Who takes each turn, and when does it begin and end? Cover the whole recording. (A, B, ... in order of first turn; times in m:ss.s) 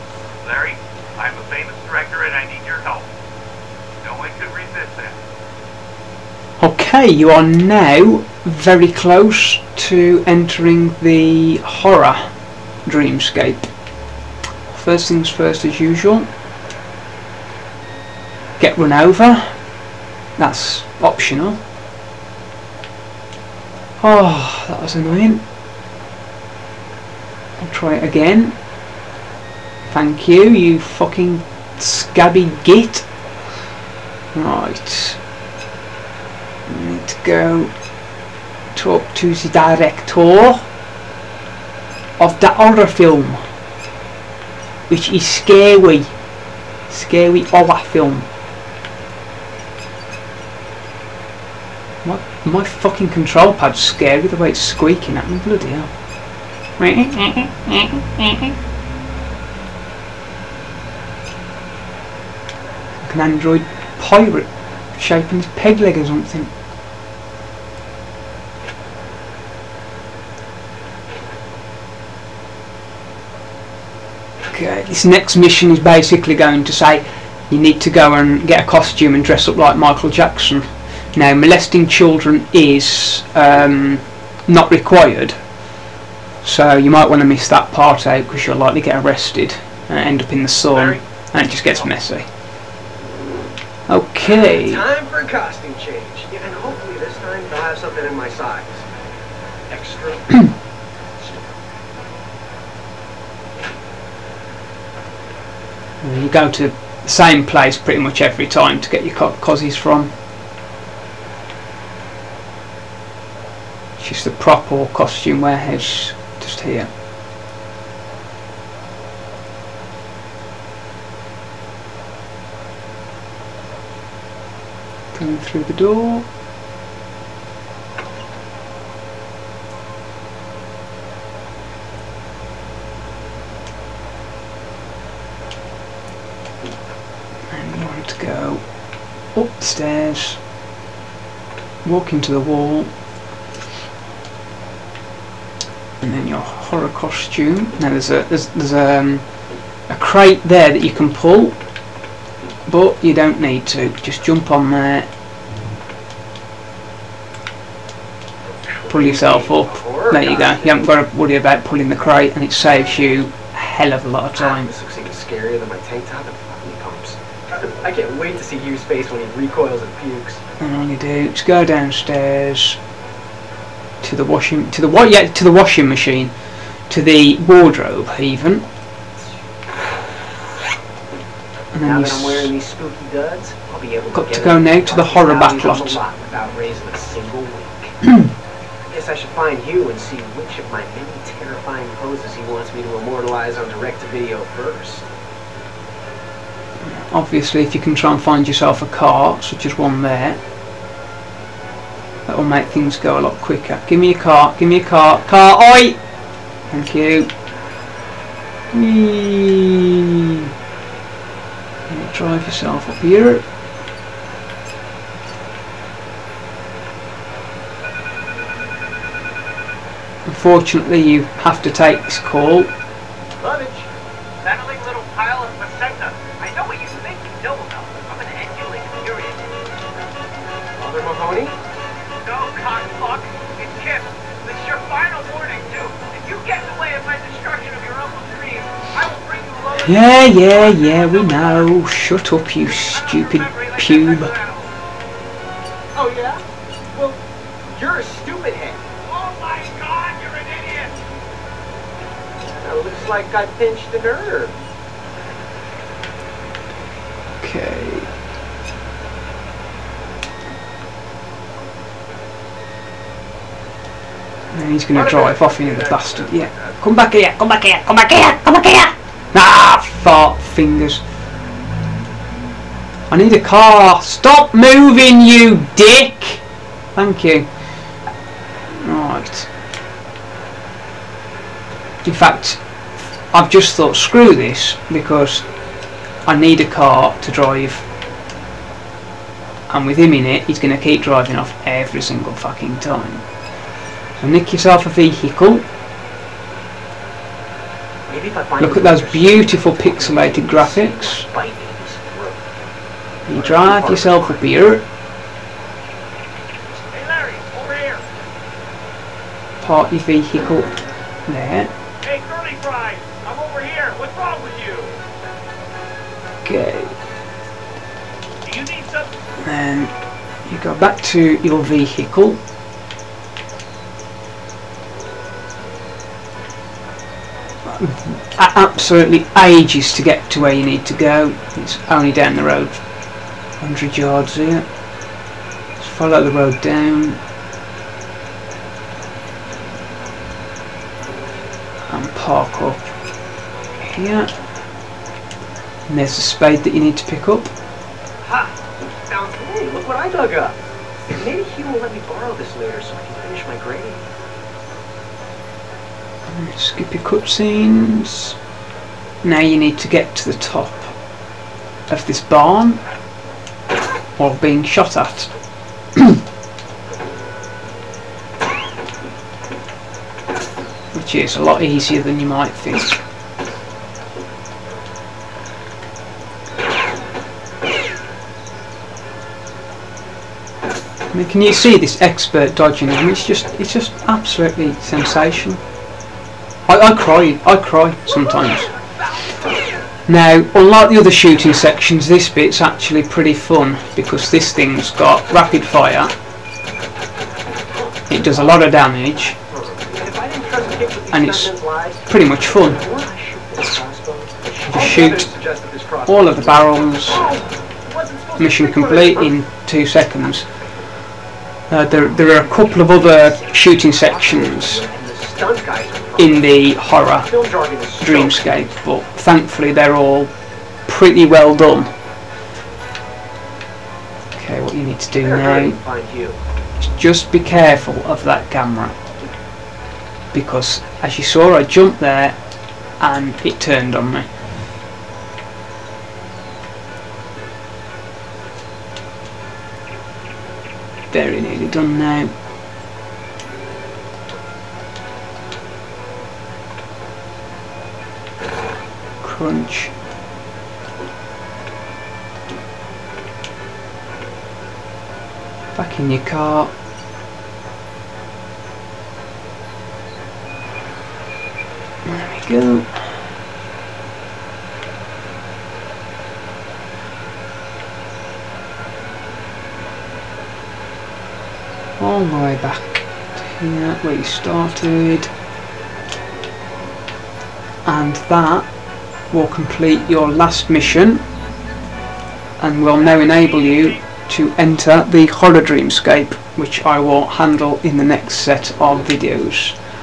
0:00.4-0:03.1 A
0:04.0-0:05.2 A
0:06.6-0:12.3 B
0:12.8-0:13.7 B
0:14.7-0:16.3 B
0:18.6-0:19.6 B
0:20.4-0:21.6 B
0:24.0-0:25.4 B
0:27.6-0:28.6 B
0:29.9-0:33.1 B
0:34.3-0:35.2 B
0:36.7-0:37.7 B
0:38.7-0:40.7 B
0:42.2-0:43.4 B
0:44.9-0:46.1 B
0:46.9-0:48.3 B
0:52.0-0:55.9 B
0:56.8-0:58.5 B
1:03.0-1:06.5 B
1:14.5-1:25.4 B
1:26.4-1:32.3 B
1:33.9-1:34.8 B
1:34.2-1:38.9 C
1:39.7-1:40.5 C
1:41.2-1:41.6 C
1:46.0-1:50.2 B
1:54.0-1:56.9 B
2:05.1-2:06.2 B
2:17.5-2:20.4 B
2:21.8-2:23.0 B
2:26.0-2:31.6 B
2:32.7-2:35.1 B
2:38.7-2:40.9 C
2:38.9-2:44.7 B
2:44.3-2:50.4 C
2:50.6-2:52.8 B
2:54.0-2:58.7 B
3:01.7-3:02.5 B
3:01.8-3:08.0 C
3:04.1-3:06.0 B
3:08.8-3:15.0 C
3:16.8-3:20.4 B
3:22.2-3:26.0 B
3:26.7-3:27.3 B
3:28.7-3:30.1 B
3:31.9-3:33.4 B
3:40.2-3:42.7 B
3:43.4-3:43.9 C
3:44.4-3:46.4 A
3:46.3-3:49.2 C
3:47.3-3:47.7 A
3:50.8-3:51.6 C
3:52.2-3:57.7 A
3:54.5-4:00.4 C
3:59.8-4:04.3 B
4:00.3-4:01.7 A
4:02.6-4:04.7 A
4:05.9-4:07.2 C
4:07.7-4:08.8 C
4:09.0-4:11.0 A
4:12.6-4:14.5 C
4:17.4-4:18.1 B
4:24.5-4:31.0 B
4:24.9-4:26.7 C
4:33.1-4:36.4 B
4:36.9-4:37.5 B
4:38.8-4:39.5 B
4:42.0-4:42.6 B
4:43.3-4:45.5 B
4:46.2-4:47.8 B
4:49.7-4:53.3 B
4:54.2-4:55.6 B
4:58.1-5:02.4 C
4:58.6-5:01.2 B
5:03.3-5:04.8 B
5:03.3-5:04.4 C
5:06.9-5:08.0 A
5:09.6-5:10.7 B
5:11.2-5:11.7 B
5:12.0-5:15.0 A
5:16.4-5:17.0 B
5:18.4-5:19.1 A
5:19.4-5:22.4 B
5:27.6-5:32.8 B
5:33.6-5:34.7 B
5:35.8-5:37.2 B
5:41.9-5:42.9 B
5:43.7-5:44.3 B
5:45.9-5:47.5 B
5:48.2-5:54.1 C
5:56.3-5:58.4 B
5:59.2-6:01.0 B
6:01.9-6:02.8 B
6:04.2-6:05.3 B
6:10.9-6:13.0 B
6:21.1-6:25.6 B
6:26.7-6:28.7 B
6:30.1-6:36.1 B
6:38.0-6:38.6 C
6:38.1-6:39.4 B
6:39.3-6:49.4 C
6:41.1-6:42.8 B
6:44.6-6:45.3 B
6:46.0-6:47.2 B
6:48.4-6:50.5 B
6:50.2-6:50.6 C
6:51.7-6:54.8 B
6:52.2-6:58.6 C
6:56.2-6:57.3 B
6:58.0-7:00.3 B
7:00.8-7:01.9 B
7:04.3-7:05.8 B
7:05.1-7:06.4 C
7:06.8-7:09.0 B
7:10.3-7:12.4 B
7:13.0-7:14.3 B
7:21.1-7:22.3 B
7:29.2-7:29.9 B
7:35.7-7:36.7 B
7:42.0-7:43.0 B
7:52.0-7:55.3 B
7:57.8-7:58.7 B
7:59.3-8:01.2 B
8:02.6-8:09.8 B
8:03.1-8:03.8 A